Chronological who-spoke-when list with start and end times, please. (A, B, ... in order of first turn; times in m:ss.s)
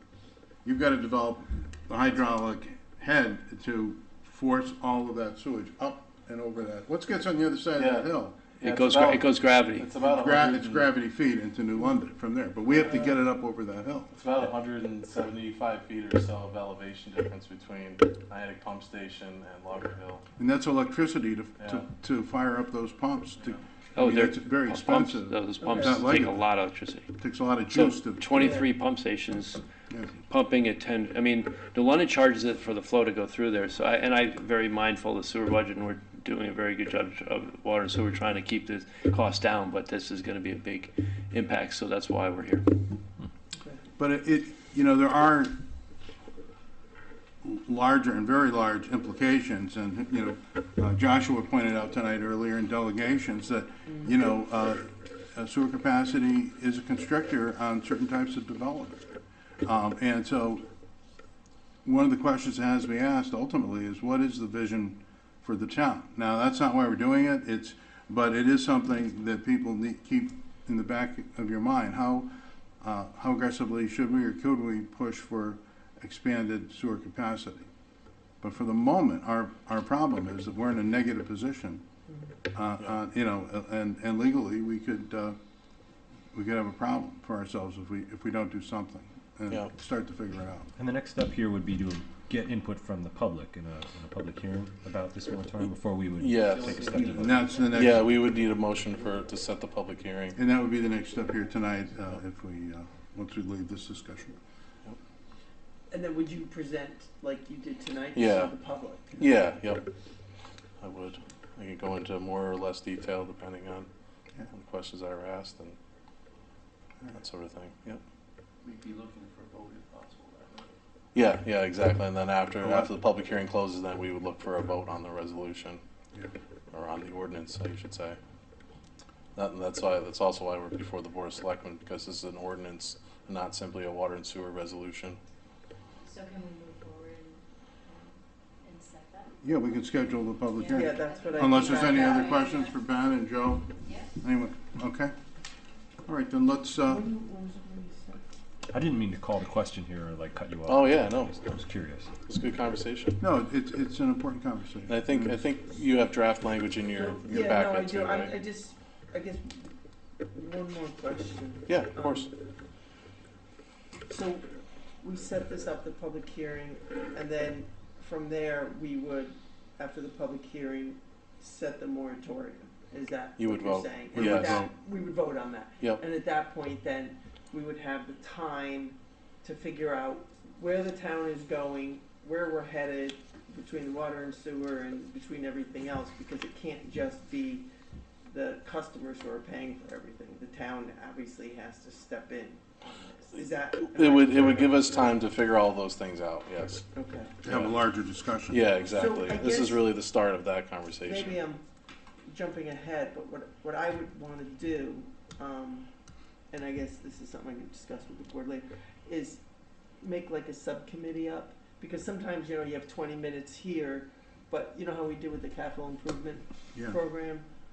0:00.6-0:08.4 A
0:07.8-0:10.9 B
0:08.6-0:09.9 C
0:10.0-0:14.1 A
0:12.7-0:13.2 B
0:14.1-0:20.2 B
0:20.4-0:26.4 A
0:21.6-0:21.9 B
0:24.0-0:27.1 C
0:25.6-0:26.0 D
0:27.2-0:28.6 A
0:27.7-0:29.6 C
0:30.2-0:42.6 C
0:44.0-0:45.6 A
0:47.4-0:59.0 A
0:59.6-1:00.6 A
1:01.8-1:12.3 A
1:12.8-1:17.7 A
1:18.4-1:21.8 A
1:22.5-1:25.4 A
1:26.3-1:30.7 A
1:30.8-1:37.4 E
1:36.2-1:36.8 B
1:36.5-1:37.8 F
1:36.9-1:38.1 A
1:37.5-1:40.4 B
1:40.4-1:44.4 A
1:45.9-1:49.2 D
1:48.2-1:48.6 B
1:49.2-1:49.8 B
1:50.8-1:53.9 B
1:54.5-1:55.8 B
1:57.2-1:58.0 B
1:58.7-2:00.6 F
2:01.1-2:05.8 B
2:02.6-2:02.9 A
2:06.7-2:08.2 B
2:09.4-2:15.2 B
2:16.0-2:19.3 G
2:19.4-2:25.1 A
2:20.5-2:22.8 G
2:20.7-2:22.4 D
2:26.1-2:27.1 A
2:26.8-2:28.2 D
2:28.7-2:32.1 E
2:30.7-2:31.5 B
2:32.3-2:33.2 B
2:33.2-2:35.4 A
2:34.9-2:38.4 B
2:36.9-2:39.7 D
2:40.3-2:42.3 D
2:41.7-2:42.3 B
2:44.1-2:44.5 D
2:45.0-3:07.7 D
2:53.4-2:54.6 B
2:54.1-2:54.7 A
3:08.3-3:12.6 D
3:13.2-3:15.1 D
3:13.9-3:16.9 B
3:16.9-3:17.4 D
3:17.4-3:18.6 A
3:17.5-3:17.8 B
3:18.5-3:21.4 B
3:18.8-3:19.8 D
3:21.0-3:21.6 D
3:22.3-3:25.9 D
3:26.5-3:29.4 D
3:30.0-3:37.5 D